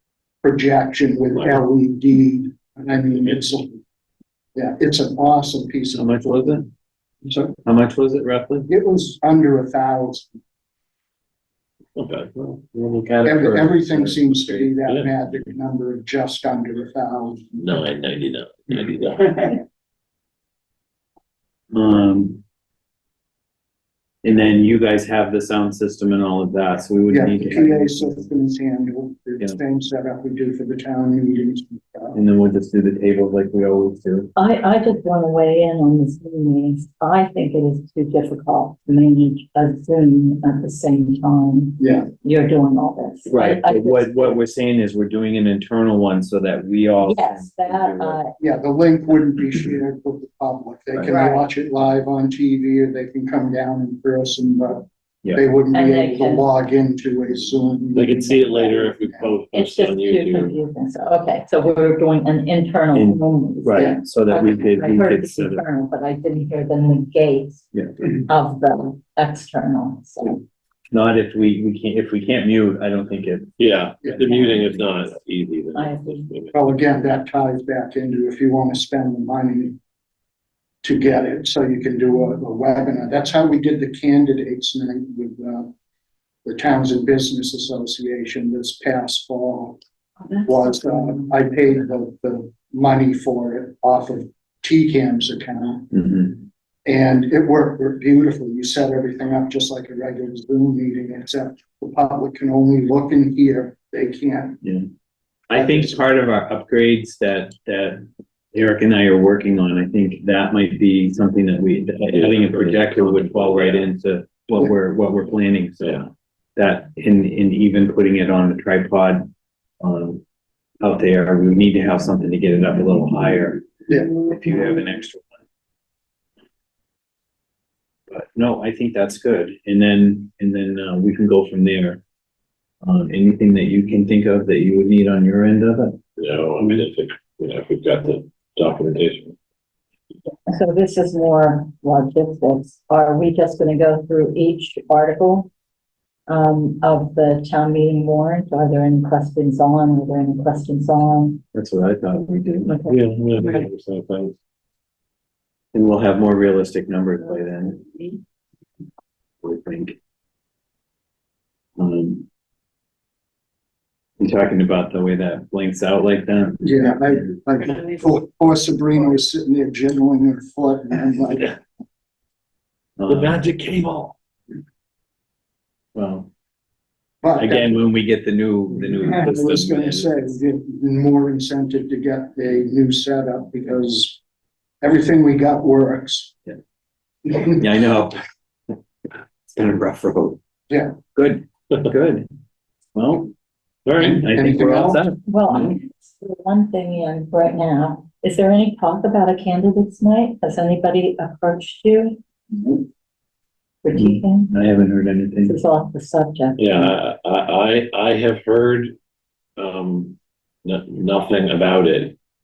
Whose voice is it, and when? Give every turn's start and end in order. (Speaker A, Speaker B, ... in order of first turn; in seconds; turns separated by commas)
Speaker A: 0.4-3.8, Speaker A: 4.5-6.6, Speaker B: 6.0-6.7, Speaker A: 7.2-7.6, Speaker B: 7.6-8.7, Speaker A: 8.7-10.3, Speaker C: 11.9-14.1, Speaker A: 13.2-17.6, Speaker C: 14.8-15.2, Speaker C: 17.6-19.6, Speaker B: 21.7-22.4, Speaker B: 24.2-28.2, Speaker A: 27.1-32.2, Speaker B: 32.1-34.3, Speaker D: 34.4-44.3, Speaker A: 41.8-42.1, Speaker B: 43.3-48.2, Speaker D: 47.0-48.3, Speaker A: 48.4-59.4, Speaker D: 51.0-51.5, Speaker D: 55.7-56.5, Speaker C: 57.9-60.5, Speaker D: 59.5-67.7, Speaker B: 62.9-65.6, Speaker D: 68.2-70.4, Speaker B: 70.9-73.5, Speaker C: 73.6-76.5, Speaker A: 74.0-74.5, Speaker D: 75.7-76.3, Speaker A: 76.5-79.8, Speaker A: 80.8-85.7, Speaker A: 86.4-89.8, Speaker D: 90.2-91.3, Speaker A: 90.4-95.9, Speaker B: 95.9-96.4, Speaker A: 96.8-104.6, Speaker B: 105.5-108.0, Speaker A: 105.5-106.0, Speaker B: 108.5-116.0, Speaker C: 112.1-113.9, Speaker B: 116.5-119.3, Speaker B: 119.8-120.2, Speaker B: 120.8-125.3, Speaker B: 128.1-132.0, Speaker B: 132.8-136.0, Speaker C: 136.2-139.3, Speaker D: 140.5-145.5, Speaker D: 146.3-151.4, Speaker B: 151.5-152.8, Speaker D: 152.6-153.7, Speaker C: 152.9-154.3, Speaker B: 155.7-158.0, Speaker B: 159.4-160.0, Speaker B: 161.8-162.2, Speaker B: 164.2-166.9, Speaker A: 166.6-171.6, Speaker B: 173.0-173.4, Speaker C: 173.1-174.1, Speaker B: 175.9-176.3, Speaker A: 177.2-177.8, Speaker B: 177.3-180.2, Speaker A: 179.0-184.2, Speaker A: 184.8-186.3, Speaker A: 187.3-187.6, Speaker B: 187.5-188.2, Speaker B: 189.5-190.4, Speaker A: 190.7-190.9, Speaker B: 191.1-192.3, Speaker B: 192.9-193.3, Speaker C: 193.8-194.2, Speaker A: 194.0-195.0, Speaker B: 194.2-195.8, Speaker D: 195.2-202.8, Speaker D: 203.8-204.5, Speaker B: 203.9-205.6, Speaker D: 205.4-206.9, Speaker C: 206.6-208.9, Speaker C: 209.6-212.2